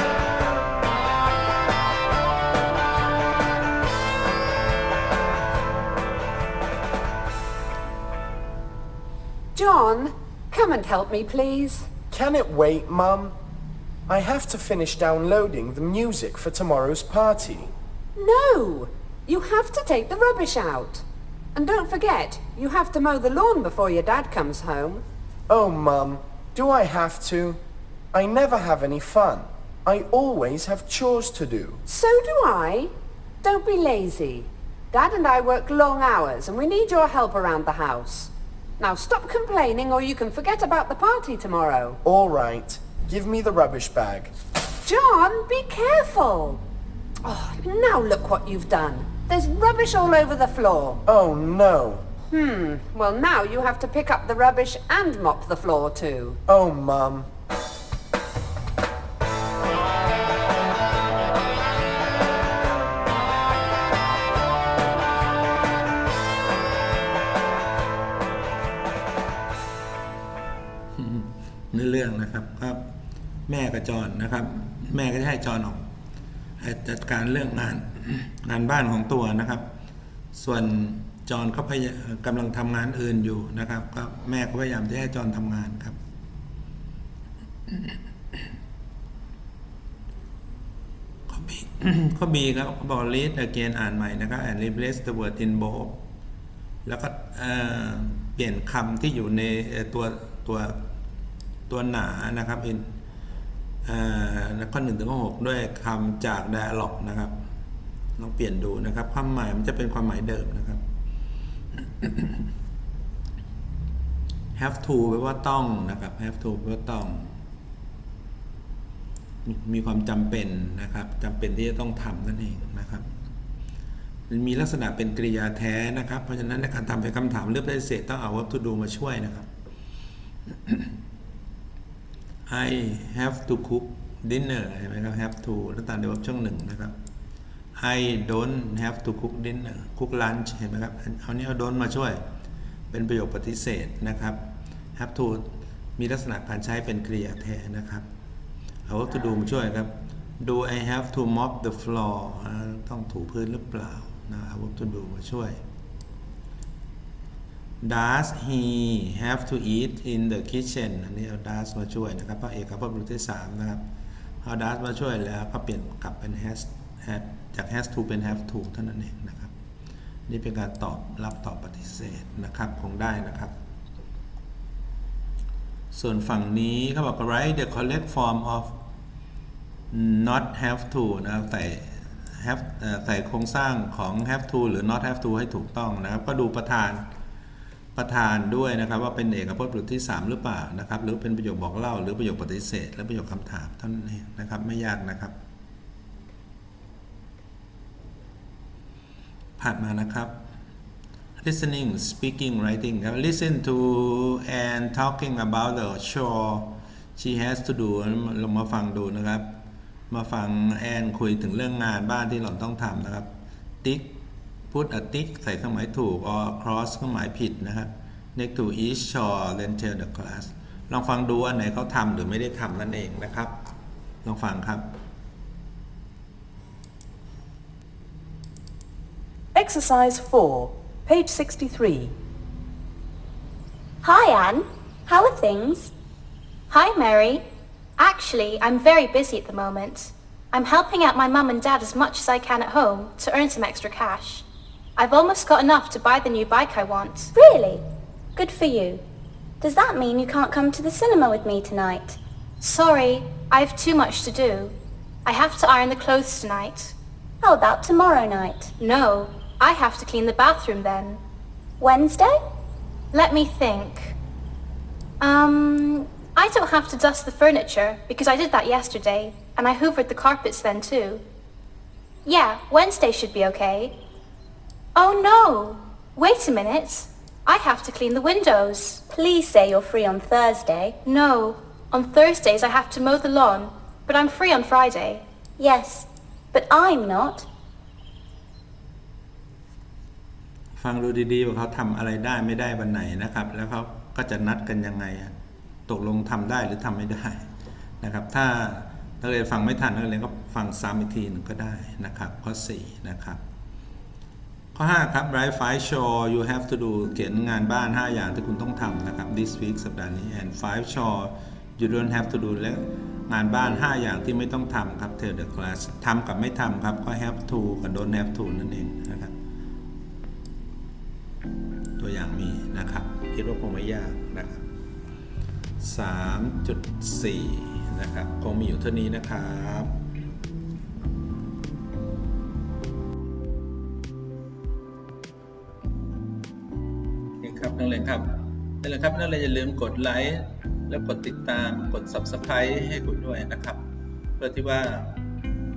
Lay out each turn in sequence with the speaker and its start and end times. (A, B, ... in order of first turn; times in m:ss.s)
0:09.5-0:11.9 A
0:12.1-0:13.3 B
0:14.1-0:17.7 B
0:18.2-0:25.0 A
0:25.5-0:27.6 B
0:28.1-0:31.8 B
0:31.9-0:42.0 A
0:42.0-0:44.3 B
0:44.8-0:46.6 A
0:47.2-0:51.0 A
0:51.0-0:52.0 B
0:52.3-0:56.4 A
0:56.5-0:57.3 B
1:11.0-1:12.9 C
1:13.5-1:15.8 C
1:16.6-1:19.7 C
1:20.3-1:26.0 C
1:31.3-1:36.0 C
1:36.8-1:40.8 C
1:41.7-1:42.9 C
1:43.8-1:47.3 C
1:48.2-1:50.8 C
1:52.0-1:52.4 C
1:54.6-1:57.3 C
1:59.4-2:03.1 C
2:04.3-2:09.5 C
2:10.7-2:10.9 C
2:12.5-2:16.9 C
2:17.8-2:22.2 C
2:22.9-2:24.4 C
2:24.9-2:28.1 C
2:28.8-2:35.6 C
2:37.8-2:43.8 C
2:44.4-2:49.5 C
2:50.3-2:53.5 C
2:55.9-2:58.7 C
2:59.9-3:07.0 C
3:07.9-3:15.3 C
3:19.6-3:20.3 C
3:21.4-3:29.5 C
3:30.1-3:33.3 C
3:33.8-3:34.2 C
3:34.7-3:43.5 C
3:44.2-3:44.9 C
3:49.5-3:52.1 D
3:54.0-3:55.9 E
3:56.7-3:57.4 F
3:58.0-4:04.4 F
4:05.0-4:07.3 F
4:07.3-4:07.8 E
4:08.3-4:09.0 E
4:09.6-4:12.2 E
4:12.6-4:16.9 F
4:17.4-4:18.7 E
4:18.8-4:21.2 F
4:21.8-4:22.4 E
4:23.1-4:24.2 F
4:25.2-4:31.2 F
4:32.2-4:33.9 F
4:35.0-4:39.0 F
4:39.1-4:41.0 E
4:41.0-4:45.2 F
4:45.6-4:47.4 E
4:50.8-4:55.3 C
4:55.9-4:57.5 C
4:58.0-5:03.4 C
5:04.7-5:19.3 C
5:22.0-5:24.6 C
5:25.8-5:29.9 C
5:37.4-5:43.8 C
5:44.4-5:45.1 C